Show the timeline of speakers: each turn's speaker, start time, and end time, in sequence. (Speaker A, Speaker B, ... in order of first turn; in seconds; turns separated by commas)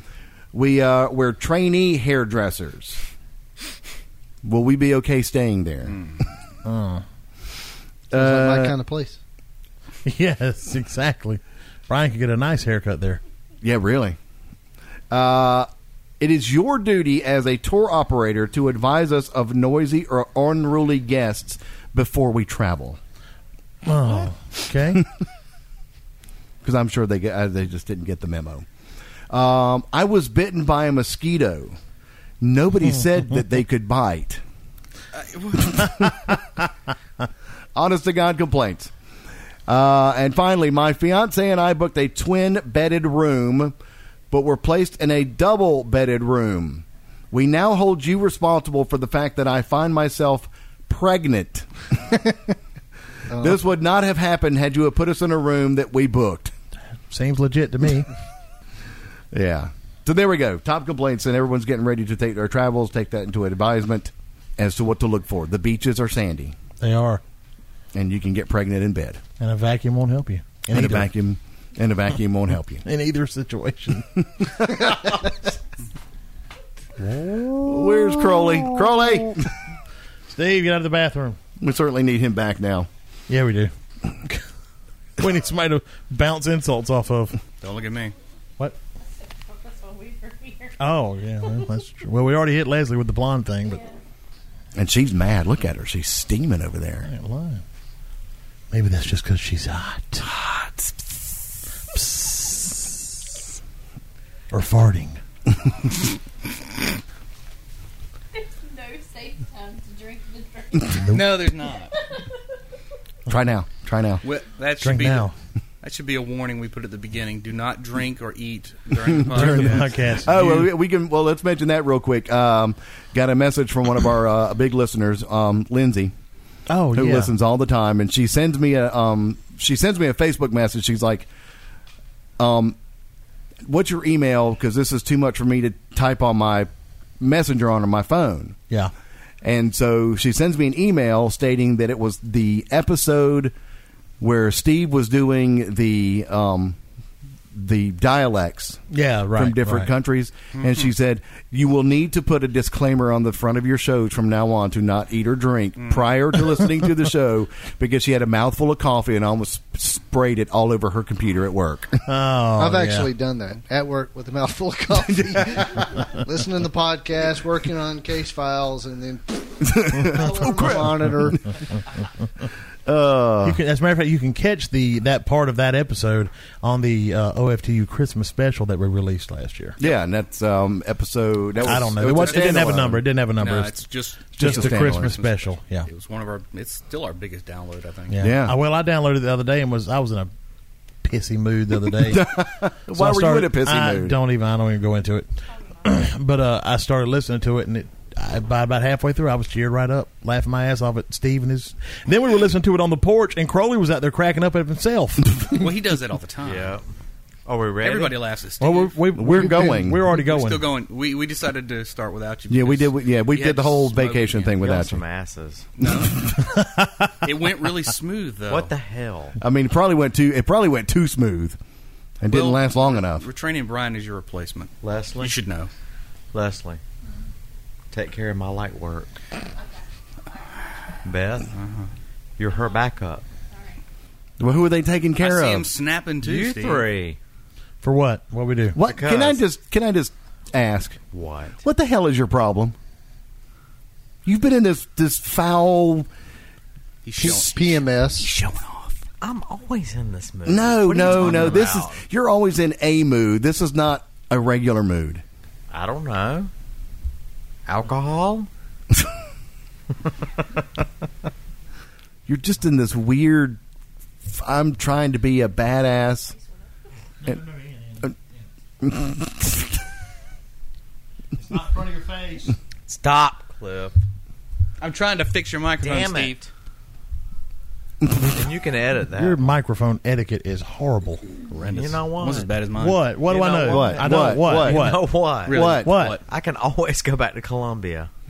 Speaker A: 0.5-3.0, Speaker A: 4.4-6.0, Speaker B: 6.7-7.0, Speaker A: 8.1-8.8, Speaker C: 8.1-9.2, Speaker B: 10.1-13.2, Speaker A: 13.6-14.2, Speaker A: 15.1-15.7, Speaker A: 16.2-23.0, Speaker B: 23.9-25.1, Speaker A: 26.6-28.7, Speaker A: 29.3-31.8, Speaker A: 32.4-34.4, Speaker D: 35.1-36.1, Speaker A: 35.7-36.3, Speaker A: 37.8-38.9, Speaker A: 39.7-43.8, Speaker A: 44.3-51.7, Speaker C: 53.3-53.6, Speaker A: 53.3-56.5, Speaker B: 57.1-58.1, Speaker A: 59.3-66.6, Speaker B: 66.8-67.2, Speaker A: 67.9-69.2, Speaker B: 69.4-71.1, Speaker A: 70.7-72.8, Speaker B: 72.8-75.2, Speaker A: 74.6-74.9, Speaker B: 77.0-79.3, Speaker A: 77.7-79.5, Speaker B: 80.3-81.4, Speaker A: 81.6-82.9, Speaker B: 83.3-83.7, Speaker B: 85.2-87.4, Speaker D: 87.6-88.2, Speaker E: 89.0-90.8, Speaker B: 90.8-93.8, Speaker E: 93.6-94.0, Speaker A: 94.8-97.1, Speaker B: 97.0-97.6, Speaker B: 98.7-100.3, Speaker B: 101.9-103.0, Speaker B: 104.5-105.2, Speaker E: 108.3-111.3, Speaker B: 111.0-111.5, Speaker D: 111.1-111.9, Speaker E: 111.9-112.4, Speaker A: 113.3-114.2, Speaker D: 114.2-115.3, Speaker B: 114.8-115.3, Speaker D: 115.8-120.0, Speaker A: 119.0-126.1, Speaker B: 119.3-120.7, Speaker B: 126.7-127.3, Speaker A: 126.9-131.3, Speaker A: 132.4-132.8, Speaker A: 133.7-136.7, Speaker A: 137.2-138.6, Speaker A: 139.4-143.5, Speaker A: 144.2-146.8, Speaker A: 147.5-148.8, Speaker B: 148.9-149.9, Speaker A: 149.3-162.1, Speaker D: 150.6-150.9, Speaker D: 155.8-156.1, Speaker B: 162.1-163.1, Speaker C: 162.6-171.5, Speaker A: 165.0-165.9, Speaker A: 169.6-171.4, Speaker A: 172.9-173.6, Speaker B: 173.4-179.8, Speaker A: 179.8-183.0, Speaker B: 181.6-183.8, Speaker D: 182.1-182.8, Speaker D: 183.4-188.2, Speaker A: 184.3-185.1, Speaker B: 184.4-185.9, Speaker B: 188.1-190.3, Speaker A: 188.2-188.6, Speaker B: 191.0-192.3, Speaker A: 191.9-194.2, Speaker B: 192.9-195.3, Speaker B: 195.8-205.6, Speaker D: 205.5-206.8, Speaker F: 206.4-206.8, Speaker F: 207.5-208.2, Speaker D: 207.8-209.1, Speaker B: 208.6-210.7, Speaker A: 209.2-210.0, Speaker D: 210.0-214.6, Speaker A: 212.5-215.0, Speaker F: 214.6-215.7, Speaker D: 215.8-216.4, Speaker B: 216.4-217.1, Speaker D: 217.2-218.7, Speaker F: 218.5-219.4, Speaker A: 219.4-221.6, Speaker A: 222.2-223.2, Speaker D: 222.3-225.7, Speaker F: 224.8-225.4, Speaker F: 226.3-226.8, Speaker F: 227.9-229.1, Speaker E: 229.6-229.8, Speaker F: 231.0-231.5, Speaker D: 231.5-231.9, Speaker F: 232.4-233.2, Speaker E: 233.5-233.8, Speaker A: 234.4-235.7, Speaker D: 235.2-236.9, Speaker F: 236.2-237.2, Speaker B: 237.8-238.8, Speaker A: 238.8-241.0, Speaker F: 238.8-239.4, Speaker F: 241.1-241.6, Speaker A: 241.6-242.8, Speaker A: 244.2-246.1, Speaker D: 247.1-249.0, Speaker A: 247.2-247.5, Speaker C: 247.2-248.3, Speaker F: 249.1-252.0, Speaker A: 250.5-255.2, Speaker F: 255.7-256.5, Speaker F: 257.7-258.5, Speaker A: 262.3-263.6, Speaker A: 264.3-266.4, Speaker B: 267.2-268.2, Speaker A: 268.8-269.7, Speaker B: 271.4-272.6, Speaker F: 272.9-274.0, Speaker D: 274.8-276.4, Speaker F: 275.8-276.5, Speaker F: 278.2-279.4, Speaker B: 279.2-281.2, Speaker D: 281.5-283.2, Speaker F: 281.7-282.6, Speaker B: 282.8-285.1, Speaker F: 283.3-285.7, Speaker A: 283.7-284.9, Speaker D: 285.5-286.2, Speaker A: 285.5-285.9, Speaker B: 285.7-286.2, Speaker F: 286.2-288.1